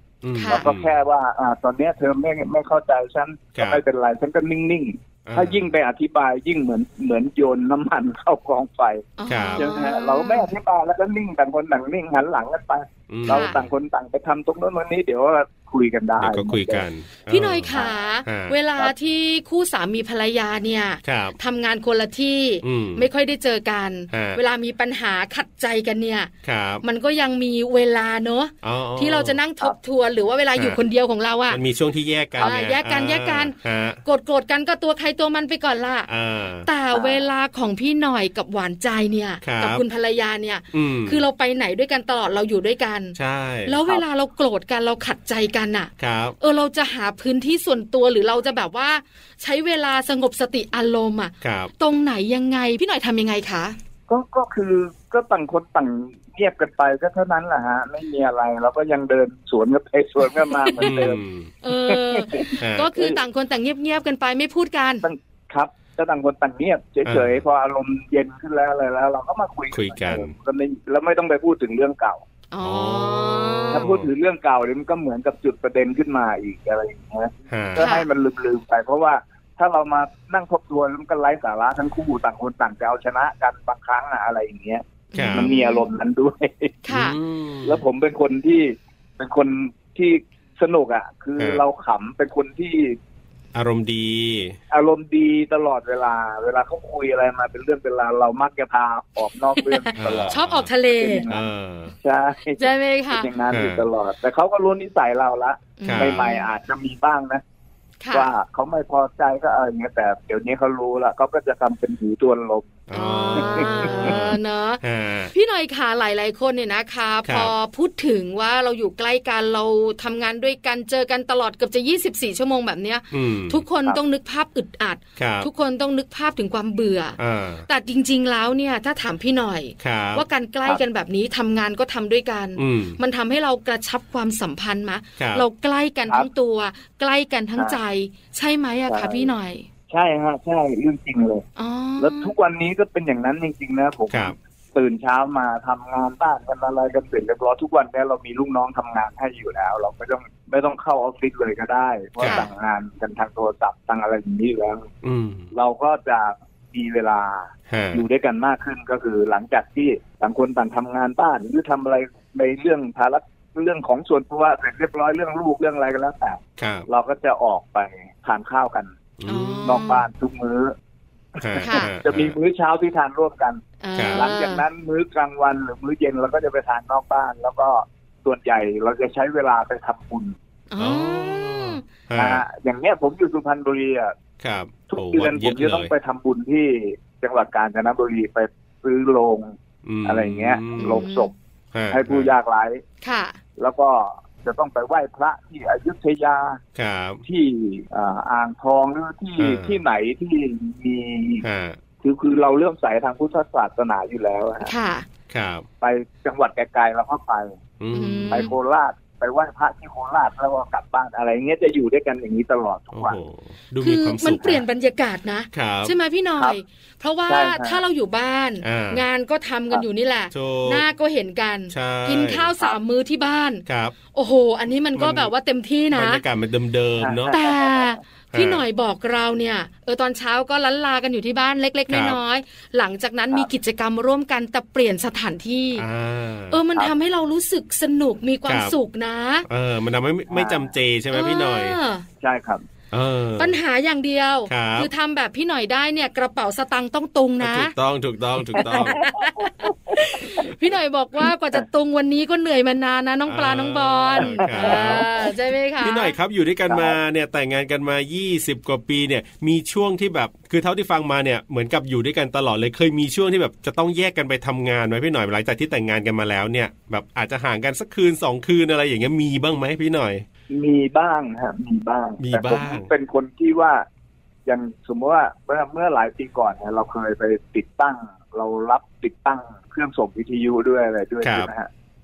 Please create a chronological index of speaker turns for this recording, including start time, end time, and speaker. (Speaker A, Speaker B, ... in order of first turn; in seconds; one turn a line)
Speaker A: 0.2-1.0
Speaker B: 0.3-0.7
Speaker C: 0.5-16.8
Speaker A: 3.5-3.8
Speaker A: 5.2-5.7
Speaker B: 9.2-10.5
Speaker A: 9.3-9.7
Speaker A: 13.1-13.7
Speaker B: 13.3-13.6
Speaker A: 16.2-18.6
Speaker B: 17.3-26.3
Speaker C: 17.7-18.0
Speaker A: 21.0-21.4
Speaker A: 22.6-23.1
Speaker A: 24.1-24.4
Speaker A: 26.4-26.8
Speaker B: 26.8-31.6
Speaker A: 28.6-29.4
Speaker A: 31.5-34.0
Speaker B: 32.4-36.1
Speaker A: 36.1-36.7
Speaker B: 36.6-53.8
Speaker C: 36.9-37.2
Speaker A: 39.4-39.8
Speaker A: 40.7-41.2
Speaker A: 43.1-43.9
Speaker A: 46.0-46.4
Speaker A: 51.4-51.7
Speaker C: 54.1-61.2
Speaker B: 60.5-61.1
Speaker A: 60.8-61.5
Speaker B: 61.6-65.0
Speaker C: 61.7-63.2
Speaker A: 62.6-62.9
Speaker C: 65.0-72.2
Speaker A: 67.0-67.4
Speaker A: 69.7-70.3
Speaker B: 72.5-73.9
Speaker A: 72.6-74.1
Speaker C: 73.7-86.8
Speaker A: 77.5-77.9
Speaker B: 77.8-78.1
Speaker B: 85.1-85.9
Speaker A: 85.1-85.5
Speaker B: 86.8-87.2
Speaker A: 86.9-87.8
Speaker C: 87.6-93.0
Speaker A: 91.4-91.6
Speaker A: 93.5-94.6
Speaker C: 94.7-100.4
Speaker B: 99.6-101.2
Speaker A: 100.0-100.7
Speaker C: 100.9-101.5
Speaker A: 101.3-101.9
Speaker C: 102.0-107.4
Speaker B: 102.6-103.3
Speaker A: 103.5-103.8
Speaker B: 105.8-106.5
Speaker A: 105.8-106.2
Speaker B: 108.0-108.3
Speaker C: 108.1-112.8
Speaker A: 112.9-115.3
Speaker B: 112.9-114.8
Speaker C: 113.3-114.2
Speaker B: 115.3-139.7
Speaker A: 117.2-117.5
Speaker A: 123.1-123.6
Speaker A: 125.2-125.5
Speaker A: 127.2-127.6
Speaker A: 129.8-130.2
Speaker A: 132.6-133.0
Speaker A: 135.2-135.4
Speaker C: 138.9-139.3
Speaker C: 139.9-141.4
Speaker B: 141.6-142.3
Speaker C: 142.0-154.9
Speaker A: 144.1-144.3
Speaker A: 152.2-152.5
Speaker B: 152.2-152.5
Speaker A: 155.0-155.5
Speaker C: 155.5-168.9
Speaker A: 157.7-158.0
Speaker A: 166.6-166.9
Speaker A: 169.2-169.8
Speaker B: 169.2-170.1
Speaker C: 169.6-170.7
Speaker C: 171.4-180.3
Speaker A: 171.4-172.4
Speaker B: 171.6-171.9
Speaker B: 173.8-174.6
Speaker A: 173.9-174.3
Speaker B: 180.7-181.8
Speaker A: 180.8-182.4
Speaker C: 182.2-184.1
Speaker A: 184.4-185.9
Speaker C: 184.9-191.3
Speaker A: 189.8-191.0
Speaker B: 190.8-191.3
Speaker A: 191.7-192.3
Speaker C: 191.9-192.8
Speaker B: 193.0-193.4
Speaker C: 193.6-196.6
Speaker A: 196.8-197.2
Speaker C: 197.2-201.4
Speaker A: 199.4-199.8
Speaker A: 201.4-201.8
Speaker C: 202.0-204.7
Speaker B: 204.6-205.1
Speaker A: 205.3-205.7
Speaker C: 205.8-207.6
Speaker A: 207.8-208.5
Speaker B: 207.9-208.5
Speaker C: 208.3-213.2
Speaker A: 212.9-214.6
Speaker B: 213.8-226.2
Speaker A: 215.5-215.9
Speaker C: 217.3-217.8
Speaker A: 218.6-219.0
Speaker A: 220.3-220.8
Speaker A: 221.7-222.5
Speaker A: 223.7-223.9
Speaker A: 224.9-225.3
Speaker A: 225.9-227.4
Speaker C: 227.0-227.9
Speaker B: 227.3-235.8
Speaker A: 228.3-228.6
Speaker A: 231.9-232.2
Speaker A: 235.8-236.6
Speaker B: 236.5-239.4
Speaker A: 238.4-238.7
Speaker A: 239.4-241.8
Speaker C: 240.3-240.7
Speaker B: 241.1-242.0
Speaker C: 242.2-242.6
Speaker A: 242.9-243.6
Speaker B: 243.4-247.7
Speaker A: 244.5-244.9
Speaker A: 247.4-249.0
Speaker C: 248.5-250.5
Speaker B: 248.5-256.1
Speaker A: 253.2-255.1
Speaker C: 254.2-255.3
Speaker A: 255.8-270.2
Speaker C: 256.7-256.9
Speaker C: 270.5-273.9
Speaker A: 272.2-272.9
Speaker C: 274.4-281.7
Speaker A: 281.2-281.5